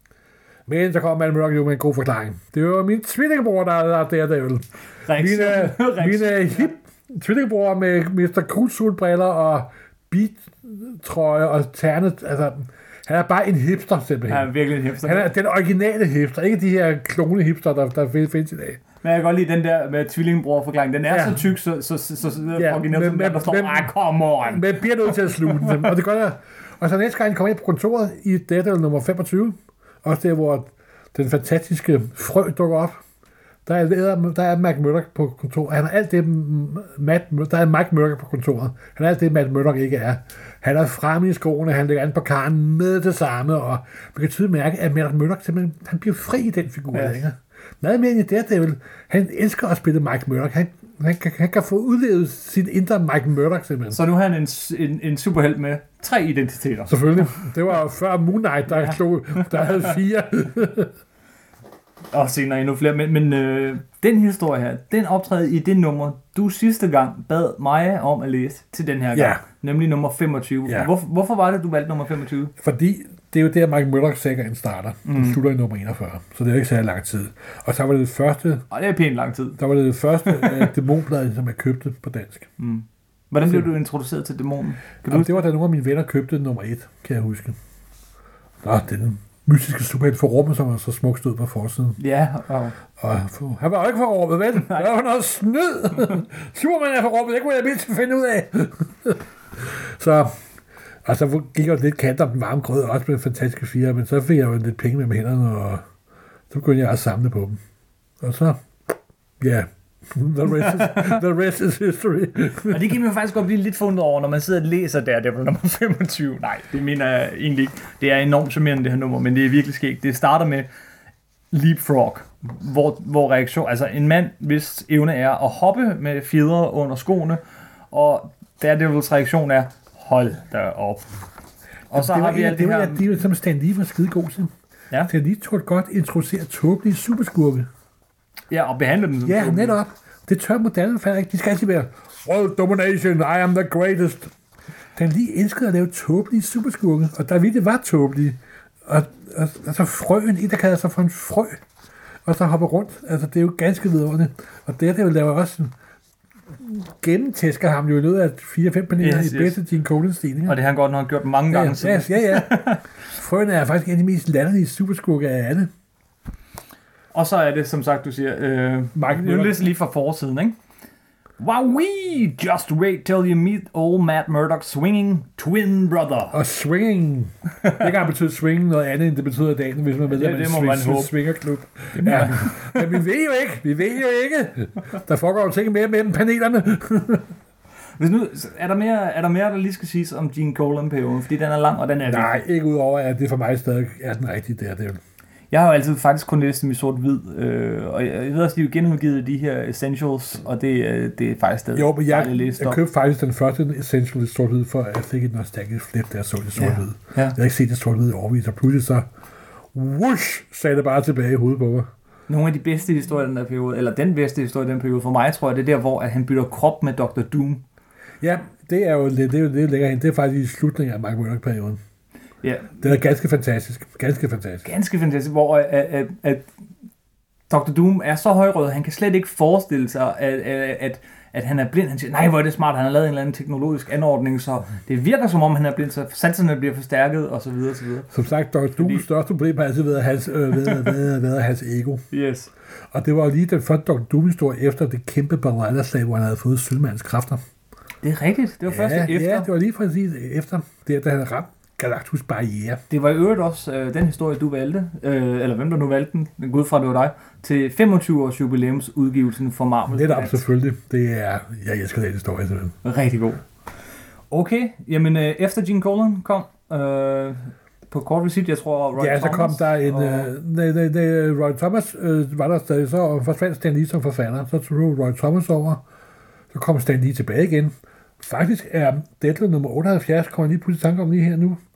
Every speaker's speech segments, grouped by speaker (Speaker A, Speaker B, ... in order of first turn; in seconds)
Speaker A: 0.7-14.5, 15.0-18.8, 21.1-21.4, 22.6-33.0, 33.6-54.0, 56.9-60.9, 69.1-69.4, 72.6-78.7, 79.6-82.5, 85.1-87.6, 88.6-92.0, 93.0-100.3, 101.0-105.8, 106.5-107.6, 108.2-108.6, 109.4-112.9, 131.9-134.5, 135.1-137.7, 139.2-144.3, 144.9-151.6, 152.2-155.7, 156.6-160.6, 161.5-165.7, 168.9-169.7, 176.3-187.3, 192.1-195.0, 201.8-209.1, 209.7-211.9, 218.2-221.8, 222.8-224.7, 238.1-242.0, 242.9-247.4, 248.7-252.8, 259.9-262.8, 269.0-275.8, 276.5-281.6
Speaker B: 5.1-6.7, 14.3-15.3, 19.0-25.9, 46.9-47.2, 53.9-57.4, 58.7-59.6, 62.1-72.5, 75.0-75.4, 78.7-79.6, 80.2-80.7, 82.6-85.5, 92.0-92.8, 94.6-94.9, 110.5-111.2, 112.7-120.7, 121.5-131.1, 131.9-133.0, 138.5-139.8, 159.0-159.6, 160.5-162.8, 167.1-170.6, 171.4-176.4, 180.1-181.1, 181.9-182.9, 188.0-192.4, 195.5-202.8, 206.6-207.4, 212.3-217.6, 222.4-222.8, 224.6-226.5, 227.5-238.1, 238.8-239.0, 242.1-242.5, 248.0-249.5, 252.9-260.4, 262.8-263.4, 264.3-270.3